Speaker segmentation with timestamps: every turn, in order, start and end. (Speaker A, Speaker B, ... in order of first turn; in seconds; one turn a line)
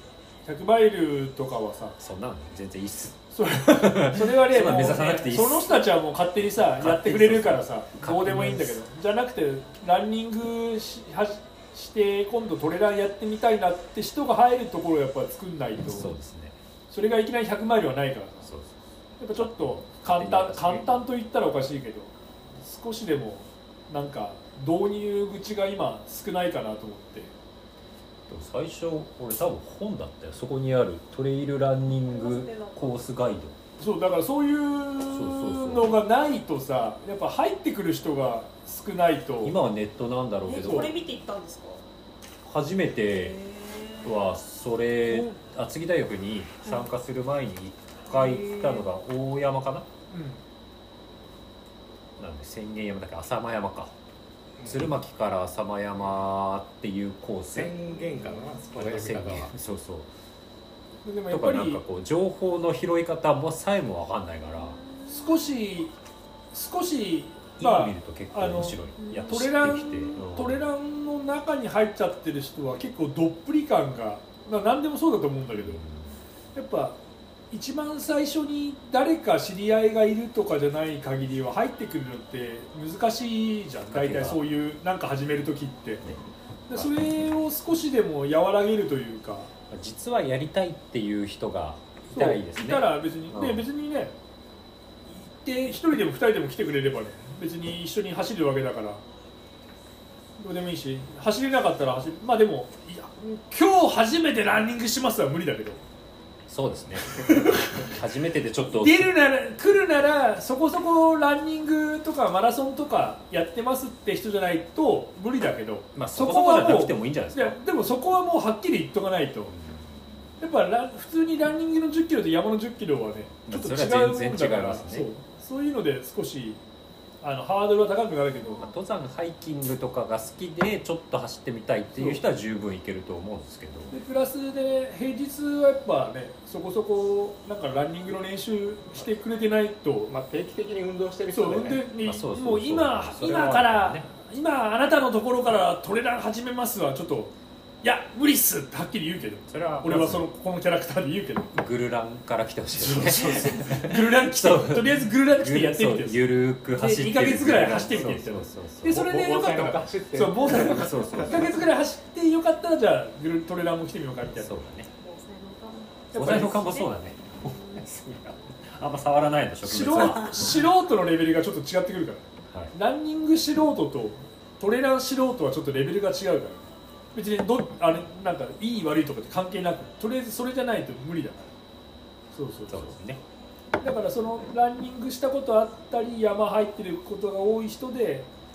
Speaker A: 0.5-2.0
Speaker B: 2.0-5.8
Speaker A: 3.3-16.1
Speaker B: 6.4-8.8
Speaker B: 15.9-16.6
Speaker A: 16.9-18.5
Speaker B: 18.4-18.7
Speaker A: 19.2-27.3
Speaker B: 19.4-21.0
Speaker B: 28.3-33.5
Speaker C: 32.1-32.8
Speaker A: 33.8-39.6
Speaker B: 35.1-36.0
Speaker B: 39.4-40.9
Speaker C: 40.5-41.8
Speaker A: 40.6-40.9
Speaker B: 42.5-43.4
Speaker C: 43.1-44.3
Speaker B: 44.0-49.9
Speaker A: 45.1-45.4
Speaker C: 48.1-48.9
Speaker A: 50.1-50.4
Speaker B: 52.2-53.9
Speaker D: 54.6-54.9
Speaker B: 54.6-57.7
Speaker D: 57.5-59.5
Speaker C: 57.9-58.7
Speaker B: 58.8-60.1
Speaker A: 61.0-61.8
Speaker B: 61.3-64.8
Speaker C: 64.5-65.5
Speaker A: 65.1-65.9
Speaker A: 66.5-75.8
Speaker B: 67.6-70.6
Speaker C: 69.0-69.4
Speaker B: 75.5-76.2
Speaker A: 76.5-77.0
Speaker A: 77.5-86.0
Speaker B: 83.9-84.4
Speaker A: 86.7-89.5
Speaker B: 89.7-93.6
Speaker A: 92.1-94.1
Speaker A: 95.1-99.0
Speaker A: 100.4-105.8
Speaker B: 106.5-109.1
Speaker A: 107.2-107.9
Speaker A: 108.7-119.5
Speaker B: 116.0-117.6
Speaker B: 119.5-119.9
Speaker A: 120.4-126.6
Speaker B: 123.5-125.1
Speaker A: 127.2-128.7
Speaker B: 128.6-133.9
Speaker A: 131.9-132.2
Speaker A: 133.9-140.1
Speaker D: 140.1-141.8
Speaker A: 141.3-151.5
Speaker B: 142.0-144.1
Speaker B: 149.5-150.3
Speaker B: 151.5-159.0
Speaker A: 152.8-164.5
Speaker D: 158.9-161.3
Speaker B: 160.6-161.5
Speaker B: 164.4-164.9
Speaker C: 165.0-166.9
Speaker B: 166.1-170.6
Speaker A: 166.1-166.6
Speaker C: 167.4-167.8
Speaker A: 169.6-181.5
Speaker C: 169.9-170.6
Speaker A: 182.3-182.9
Speaker B: 182.7-183.2
Speaker A: 183.8-188.3